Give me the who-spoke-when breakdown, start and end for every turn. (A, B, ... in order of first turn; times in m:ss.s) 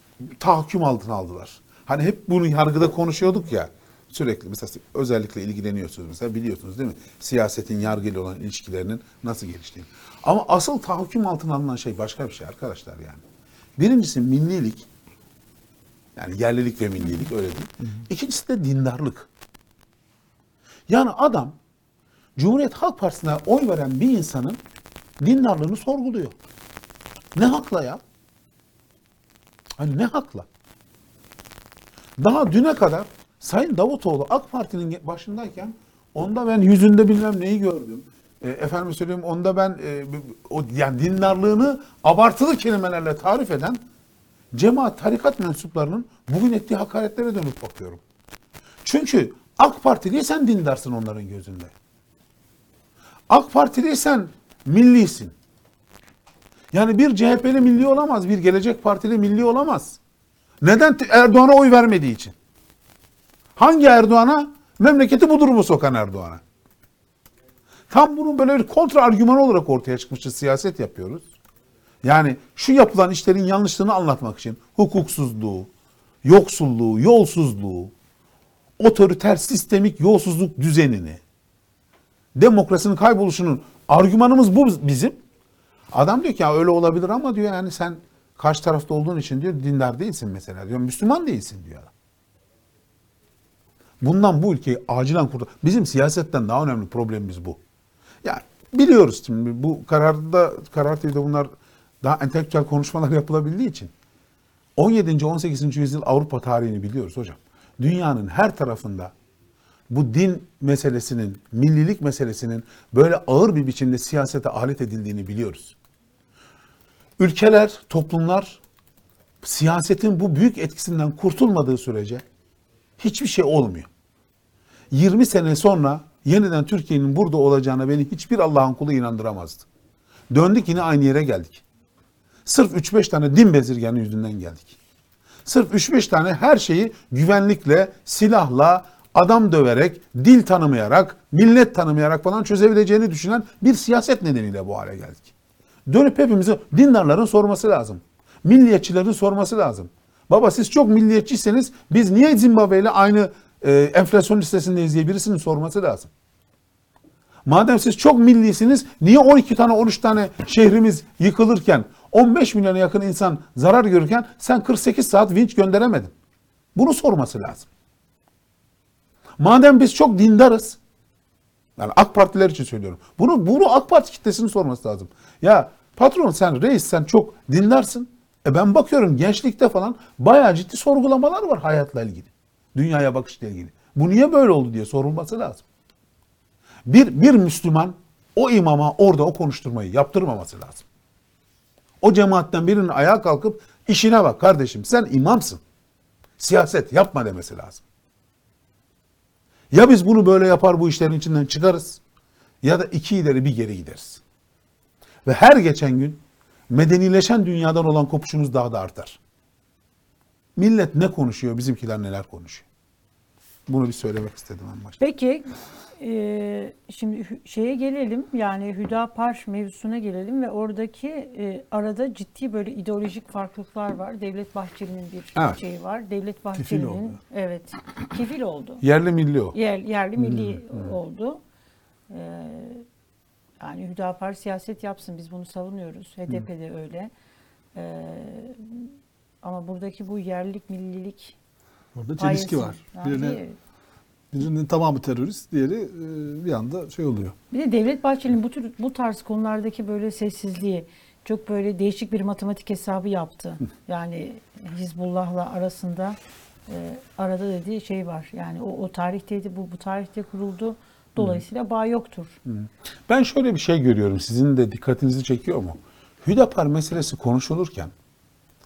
0:00.2-0:13.2 A
0:13.8-0:14.9 A
0:16.2-0:19.3 A
0:20.9-0:21.6 A
0:22.4-0:24.6 A
0:25.2-0:26.3 A
0:27.3-0:28.0 A
0:29.8-0:30.4 A
0:32.2-0:43.8 A
0:44.5-0:48.0 A
0:48.8-0:51.7 A
0:53.3-0:55.3 A
0:56.7-1:00.0 A
1:00.6-1:02.3 A
1:03.6-1:06.4 A
1:07.9-1:11.3 A
1:12.0-1:15.7 A
1:16.2-1:17.9 A
1:18.8-1:21.2 A
1:22.3-1:25.2 A
1:25.9-1:31.9 A
1:34.0-1:37.6 A
1:38.2-1:41.5 A
1:42.0-1:43.9 A
1:44.8-1:49.1 A
1:49.9-1:55.7 A
1:57.2-1:58.6 A
1:59.4-2:02.2 A
2:03.0-2:03.9 A
2:04.9-2:09.7 A
2:10.3-2:11.6 A
2:12.4-2:14.8 A
2:15.4-2:25.3 A
2:25.8-2:36.1 A
2:37.4-2:46.1 A
2:46.7-2:47.7 A
2:49.4-2:50.8 A
2:51.8-3:05.6 A
3:06.8-3:10.8 A
3:12.0-3:15.6 A
3:16.4-3:17.8 A
3:19.7-3:22.0 A
3:22.6-3:24.2 A
3:25.2-3:29.2 A
3:30.6-3:32.6 A
3:33.7-3:35.0 A
3:35.0-3:48.8 B
3:46.5-3:47.2 C
3:48.8-3:49.5 A
3:49.5-3:51.4 B
3:50.2-3:50.9 A
3:52.1-3:52.8 B
3:53.6-3:57.1 B
3:57.7-4:01.4 B
4:01.9-4:03.4 C
4:02.2-4:03.6 B
4:04.3-4:07.4 C
4:07.5-4:16.2 B
4:16.7-4:22.4 B
4:22.4-4:27.9 A